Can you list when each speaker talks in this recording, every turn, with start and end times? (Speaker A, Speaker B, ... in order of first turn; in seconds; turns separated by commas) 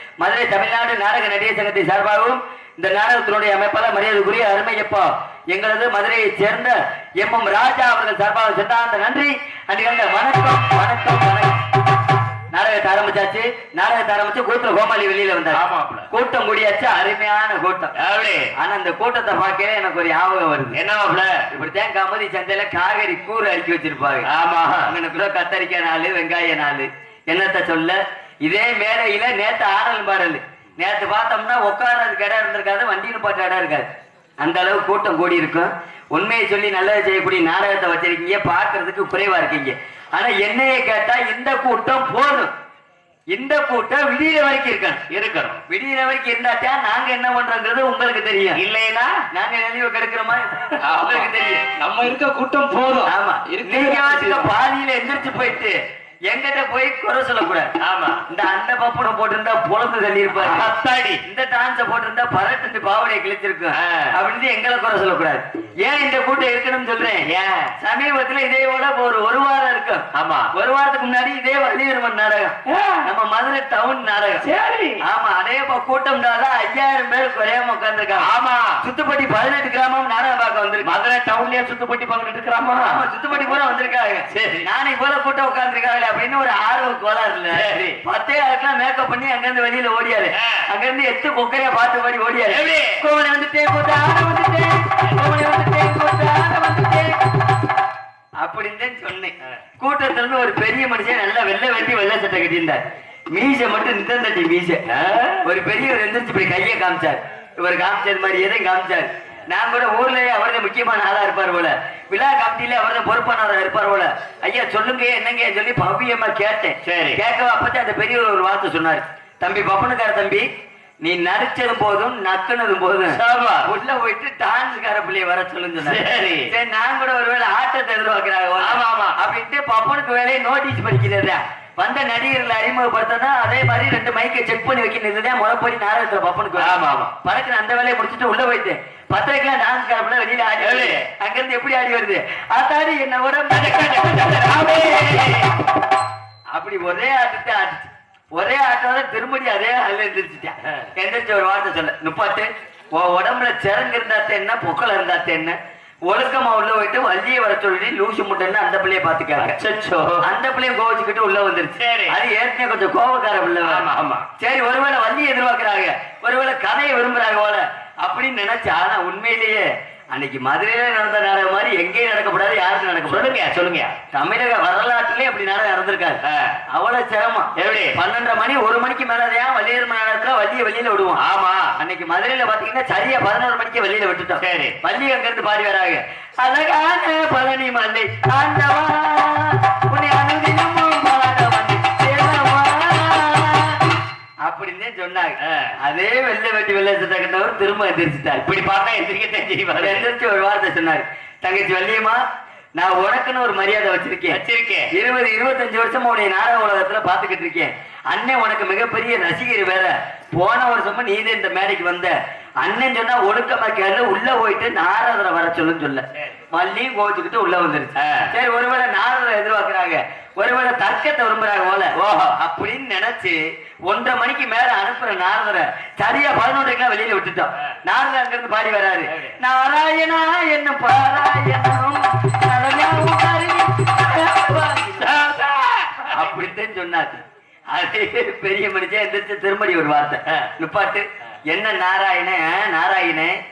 Speaker A: 0.2-11.7, Speaker A: 12.5-17.9, Speaker B: 15.5-16.1, Speaker B: 18.0-18.5, Speaker A: 18.6-20.8, Speaker B: 20.7-21.5, Speaker A: 21.5-24.3, Speaker B: 24.3-24.9, Speaker A: 24.9-33.9, Speaker A: 34.4-42.5, Speaker A: 43.3-45.0, Speaker B: 45.1-45.6, Speaker A: 45.7-48.6, Speaker B: 48.5-49.2, Speaker A: 49.3-51.7, Speaker C: 50.8-54.5, Speaker A: 53.1-55.8, Speaker A: 56.3-57.7, Speaker B: 57.8-58.2, Speaker A: 58.3-60.7, Speaker B: 60.3-61.2, Speaker A: 61.2-74.5, Speaker B: 63.7-64.1, Speaker B: 67.2-67.8, Speaker B: 70.1-70.5, Speaker B: 72.7-73.1, Speaker B: 74.4-75.0, Speaker A: 75.0-78.3, Speaker B: 78.2-78.8, Speaker A: 78.8-81.0, Speaker B: 80.8-83.0, Speaker A: 82.8-97.2, Speaker B: 84.3-84.7, Speaker B: 87.5-88.0, Speaker B: 90.3-90.7, Speaker B: 92.5-93.0, Speaker A: 98.4-104.8, Speaker B: 104.9-105.4, Speaker A: 105.4-120.5, Speaker B: 116.8-117.2, Speaker A: 121.0-144.5, Speaker B: 123.1-123.7, Speaker B: 125.8-126.5, Speaker B: 128.6-129.2, Speaker B: 136.6-137.1, Speaker B: 140.6-141.1, Speaker B: 143.6-145.6, Speaker A: 146.5-159.6, Speaker B: 159.4-160.2, Speaker A: 160.2-163.9, Speaker B: 161.8-162.2, Speaker B: 163.7-164.3, Speaker A: 164.4-173.3, Speaker B: 173.1-174.0, Speaker A: 174.1-181.2, Speaker B: 176.2-176.6, Speaker B: 177.6-178.0, Speaker B: 181.2-181.8, Speaker A: 181.8-193.8, Speaker B: 184.4-184.8, Speaker A: 194.4-198.4, Speaker B: 195.4-195.7, Speaker B: 198.4-200.1, Speaker A: 199.8-202.2, Speaker A: 202.8-204.4, Speaker B: 204.3-204.9, Speaker A: 204.9-235.1, Speaker B: 218.0-218.3, Speaker B: 222.0-222.4, Speaker B: 229.1-229.3, Speaker B: 235.0-236.4, Speaker A: 236.1-243.4